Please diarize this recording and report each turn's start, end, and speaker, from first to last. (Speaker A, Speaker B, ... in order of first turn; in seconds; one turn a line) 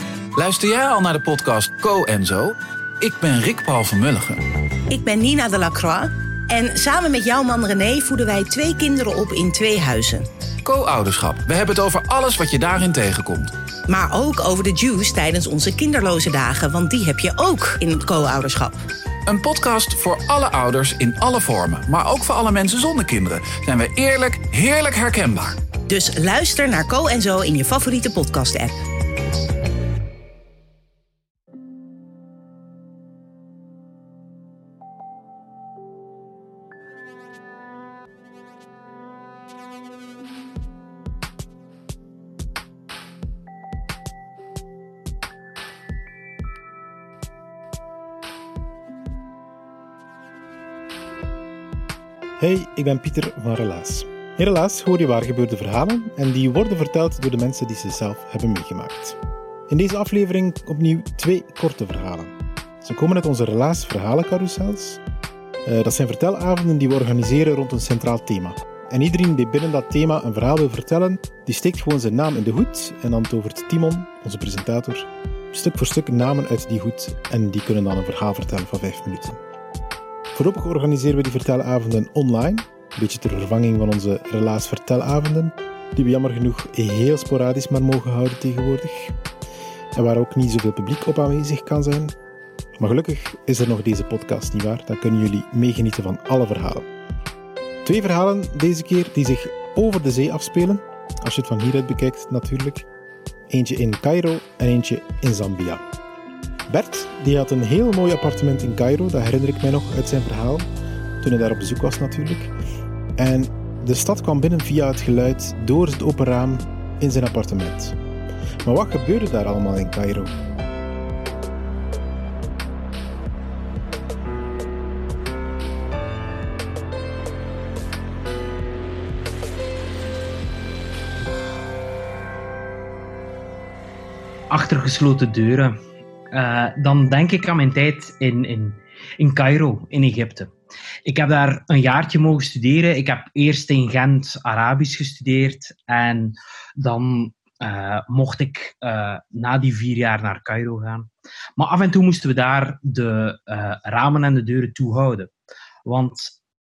Speaker A: 0.3-4.5
Speaker B: 4.9-10.3
Speaker A: 10.6-13.6
Speaker B: 13.9-18.8
Speaker A: 19.2-25.7
Speaker B: 25.9-28.8
Speaker C: 52.4-59.2
Speaker C: 59.7-65.0
Speaker C: 65.6-79.4
Speaker C: 80.3-89.1
Speaker C: 89.9-92.1
Speaker C: 92.8-96.8
Speaker C: 97.8-102.8
Speaker C: 103.5-105.8
Speaker C: 106.7-110.7
Speaker C: 111.2-112.5
Speaker C: 113.2-118.0
Speaker C: 118.6-120.3
Speaker D: 134.5-135.7
Speaker D: 136.3-140.5
Speaker D: 141.1-155.3
Speaker D: 155.8-156.4